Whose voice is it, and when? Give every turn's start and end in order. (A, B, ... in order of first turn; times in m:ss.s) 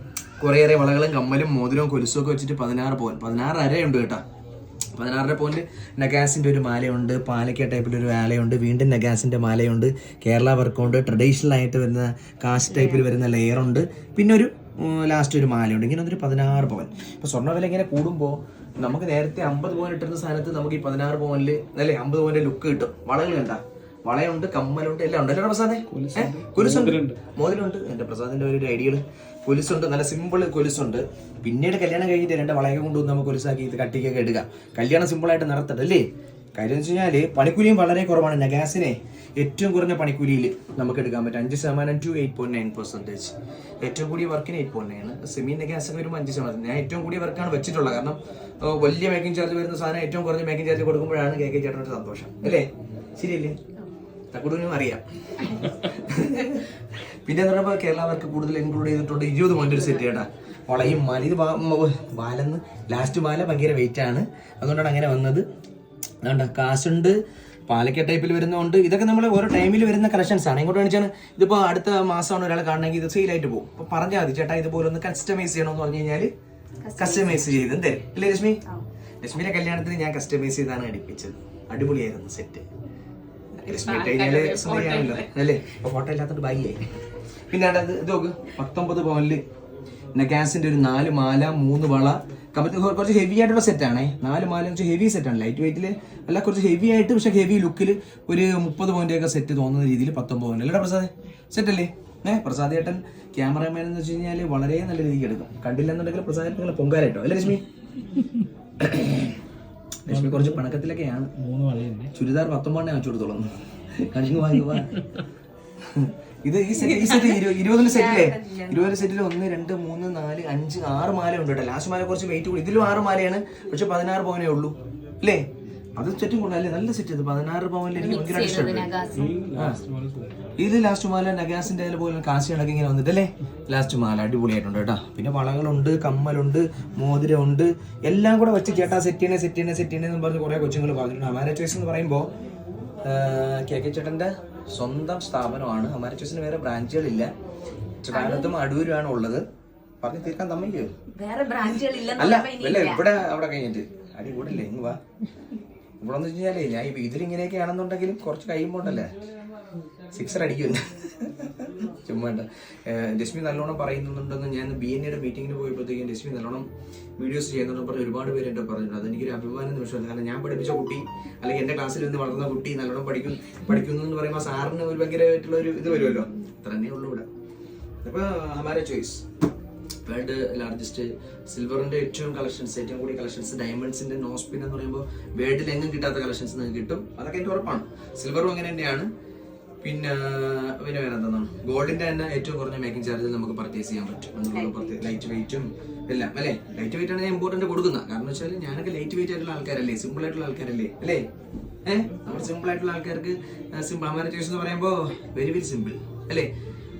0:00.4-0:04.2 A
0:04.9-0:53.6 A
0:12.7-0:13.0 B
0:25.9-0:27.2 C
0:54.3-0:56.7 A
0:57.2-1:05.4 A
1:06.2-1:07.2 A
1:07.7-1:16.3 A
1:16.8-1:17.8 B
1:17.0-1:18.6 A
1:19.2-1:22.7 A
1:23.6-1:25.3 B
1:23.6-1:26.9 A
1:27.5-1:29.4 A
1:30.1-1:47.6 A
1:48.8-1:49.4 A
1:50.0-1:51.3 A
1:50.1-1:50.6 C
1:51.4-1:52.1 C
1:52.1-1:55.0 A
1:55.9-2:05.4 A
1:56.8-1:59.0 B
2:06.0-2:08.9 A
2:07.9-2:09.3 B
2:09.1-2:10.5 C
2:10.6-2:22.3 A
2:23.0-2:27.3 A
2:28.0-2:29.4 A
2:28.1-2:28.5 B
2:30.0-2:30.9 A
2:31.1-2:33.0 B
2:31.8-2:35.0 A
2:36.0-2:39.1 A
2:40.1-2:57.2 A
2:58.0-2:59.2 A
3:00.0-3:09.1 A
3:09.8-3:21.2 A
3:14.5-3:15.0 B
3:21.8-3:26.5 A